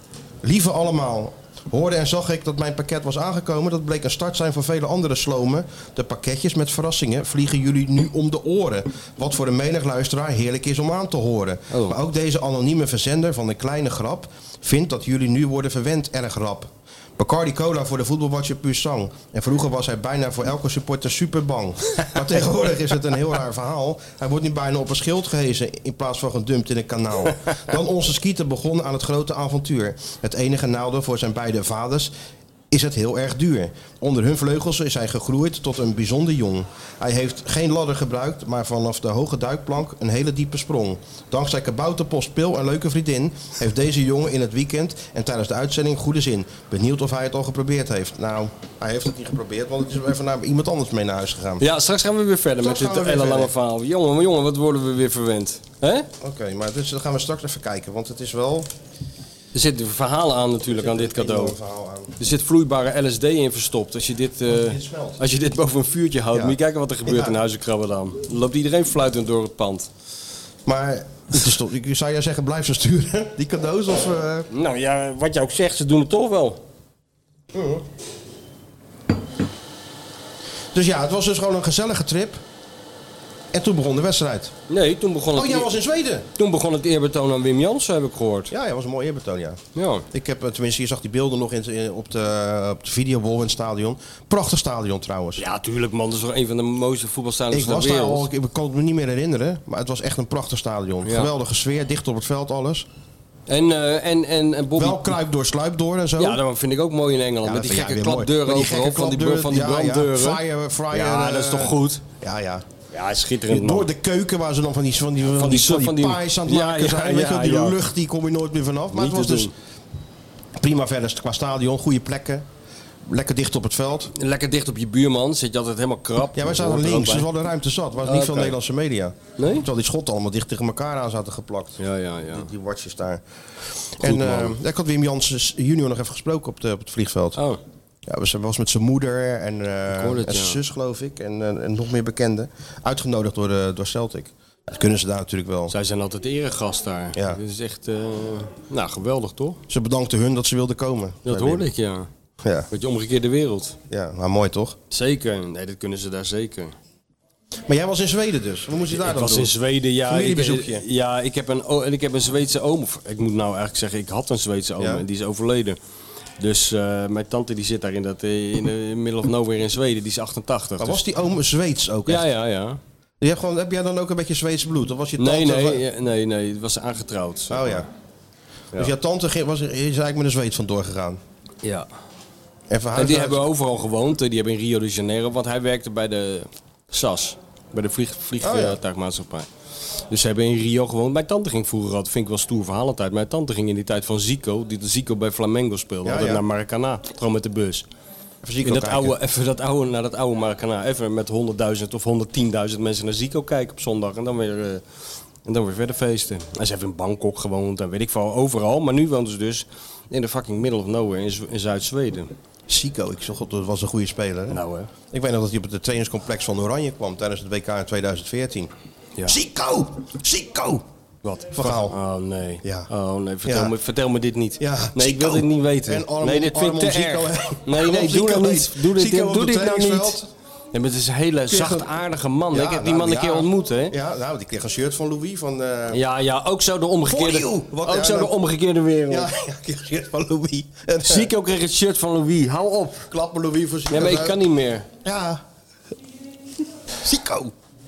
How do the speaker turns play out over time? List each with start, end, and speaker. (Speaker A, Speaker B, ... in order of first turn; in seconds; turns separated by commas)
Speaker A: 0.4-32.1, Speaker B: 11.7-12.0, Speaker A: 32.7-51.6, Speaker B: 51.6-56.1, Speaker A: 52.6-53.5, Speaker A: 56.2-58.7, Speaker B: 59.5-61.5, Speaker A: 60.7-62.1, Speaker B: 62.2-69.9, Speaker A: 64.5-65.2, Speaker A: 66.3-67.3, Speaker A: 70.7-74.5, Speaker B: 74.5-76.6, Speaker A: 77.5-77.8, Speaker A: 80.7-82.4, Speaker A: 83.5-84.5, Speaker B: 84.7-85.7, Speaker A: 85.3-86.3, Speaker B: 86.3-88.5, Speaker A: 88.5-95.4, Speaker B: 89.7-90.0, Speaker B: 95.4-98.3, Speaker A: 97.5-102.8, Speaker B: 101.0-101.3, Speaker B: 103.5-105.2, Speaker A: 104.7-106.4, Speaker B: 106.2-112.0, Speaker A: 107.4-112.7, Speaker B: 112.9-113.9, Speaker A: 113.5-119.5, Speaker B: 115.3-117.8, Speaker B: 118.9-119.5, Speaker A: 120.6-122.4, Speaker A: 123.0-124.1, Speaker B: 124.1-127.3, Speaker A: 126.3-133.2, Speaker B: 128.0-128.6, Speaker B: 129.4-129.7, Speaker B: 131.8-132.5, Speaker A: 133.9-137.4, Speaker B: 134.0-134.5, Speaker B: 137.3-137.6, Speaker A: 138.1-145.7, Speaker B: 139.9-140.6, Speaker B: 145.7-149.6, Speaker A: 147.1-147.4, Speaker A: 149.7-151.7, Speaker B: 151.2-152.1, Speaker A: 152.4-152.7, Speaker B: 152.7-153.8, Speaker A: 153.9-154.8, Speaker B: 154.9-156.7, Speaker A: 157.7-159.5, Speaker B: 158.9-165.8, Speaker A: 160.0-160.8, Speaker A: 164.8-165.0, Speaker B: 166.4-171.0, Speaker A: 170.8-172.2, Speaker B: 172.1-172.8, Speaker A: 173.2-175.8, Speaker B: 175.2-177.8, Speaker A: 177.5-177.9, Speaker A: 178.8-181.2, Speaker A: 182.7-183.5, Speaker B: 182.9-189.5, Speaker A: 188.4-188.8, Speaker B: 190.1-197.8, Speaker A: 196.0-196.4, Speaker A: 198.4-199.1, Speaker B: 198.6-204.8, Speaker B: 205.4-212.3, Speaker A: 212.7-218.7, Speaker B: 214.5-214.9, Speaker A: 219.2-220.8, Speaker B: 221.2-230.2, Speaker A: 221.5-221.9, Speaker A: 222.6-222.9, Speaker A: 223.4-223.7, Speaker A: 224.6-230.3, Speaker B: 230.7-233.9, Speaker A: 231.5-231.9, Speaker A: 232.5-236.0, Speaker B: 235.9-239.3, Speaker A: 237.1-238.3, Speaker A: 239.1-241.3, Speaker B: 241.0-243.1, Speaker A: 243.1-244.4, Speaker B: 243.9-244.9, Speaker A: 245.0-245.4, Speaker A: 246.9-247.5